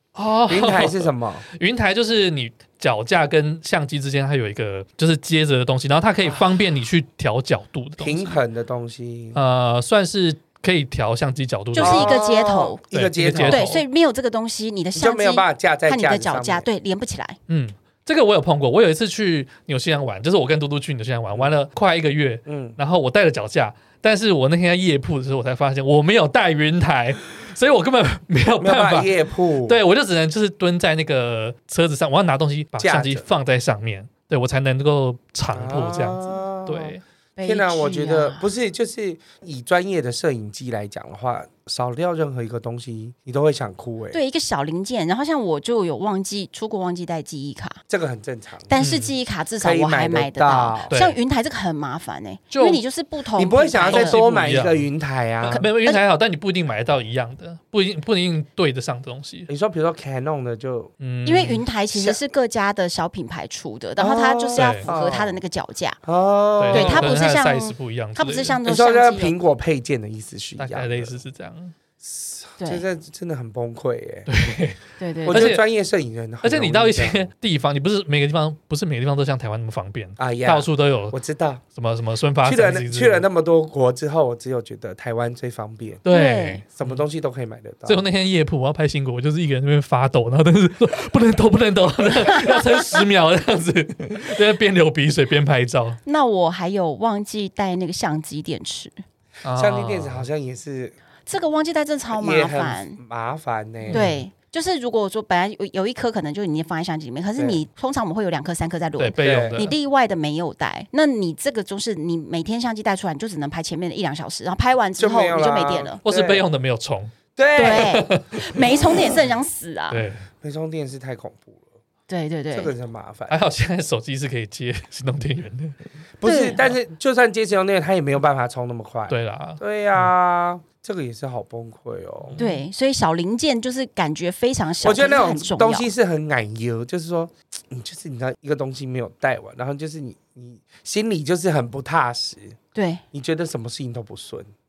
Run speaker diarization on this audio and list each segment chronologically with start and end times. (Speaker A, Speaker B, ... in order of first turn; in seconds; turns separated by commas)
Speaker A: 0.1-8.4, Speaker B: 0.5-1.4, Speaker B: 8.0-9.4, Speaker A: 9.3-12.2, Speaker C: 11.7-12.8, Speaker B: 11.8-13.7, Speaker A: 12.9-13.8, Speaker C: 13.5-17.4, Speaker B: 14.9-16.7, Speaker A: 17.5-29.1, Speaker B: 22.4-22.8, Speaker B: 28.6-29.8, Speaker A: 29.6-37.0, Speaker B: 32.8-33.2, Speaker B: 35.5-44.2, Speaker C: 37.4-38.5, Speaker C: 44.1-47.8, Speaker B: 47.9-48.7, Speaker C: 48.7-54.2, Speaker A: 48.8-49.1, Speaker B: 49.6-50.9, Speaker A: 50.9-51.2, Speaker A: 52.5-52.8, Speaker B: 53.4-55.6, Speaker A: 53.9-54.9, Speaker A: 55.4-59.5, Speaker C: 55.5-56.0, Speaker B: 59.5-60.9, Speaker A: 61.0-61.6, Speaker C: 61.2-66.0, Speaker B: 61.9-62.2, Speaker B: 64.0-65.4, Speaker A: 64.5-64.9, Speaker B: 66.0-67.1, Speaker A: 66.6-68.6, Speaker C: 66.7-69.3, Speaker B: 68.6-71.2, Speaker A: 70.6-71.7, Speaker B: 72.0-74.3, Speaker C: 72.6-72.8, Speaker A: 74.3-75.6, Speaker C: 75.0-75.5, Speaker B: 75.2-77.3, Speaker A: 76.4-81.1, Speaker B: 80.2-81.6, Speaker A: 81.7-83.2, Speaker B: 82.4-86.0, Speaker A: 86.0-87.0, Speaker C: 86.1-86.6, Speaker B: 86.7-88.0, Speaker A: 87.8-96.0, Speaker C: 96.0-98.9, Speaker A: 99.4-100.3, Speaker B: 99.5-101.0, Speaker C: 101.2-103.0, Speaker B: 102.1-104.1, Speaker A: 103.9-104.2, Speaker C: 103.9-116.0, Speaker A: 109.0-109.8, Speaker B: 109.2-109.6, Speaker B: 115.0-116.4, Speaker A: 116.0-118.6, Speaker B: 117.3-118.0, Speaker C: 117.5-120.0, Speaker A: 119.9-120.3, Speaker B: 120.4-121.7, Speaker C: 122.1-122.7, Speaker B: 122.5-123.4, Speaker A: 123.3-125.8, Speaker B: 126.2-132.4, Speaker C: 126.2-126.6, Speaker A: 129.1-130.1, Speaker A: 132.2-132.6, Speaker C: 132.4-135.9, Speaker B: 134.8-142.6, Speaker C: 142.7-143.0, Speaker B: 143.1-144.5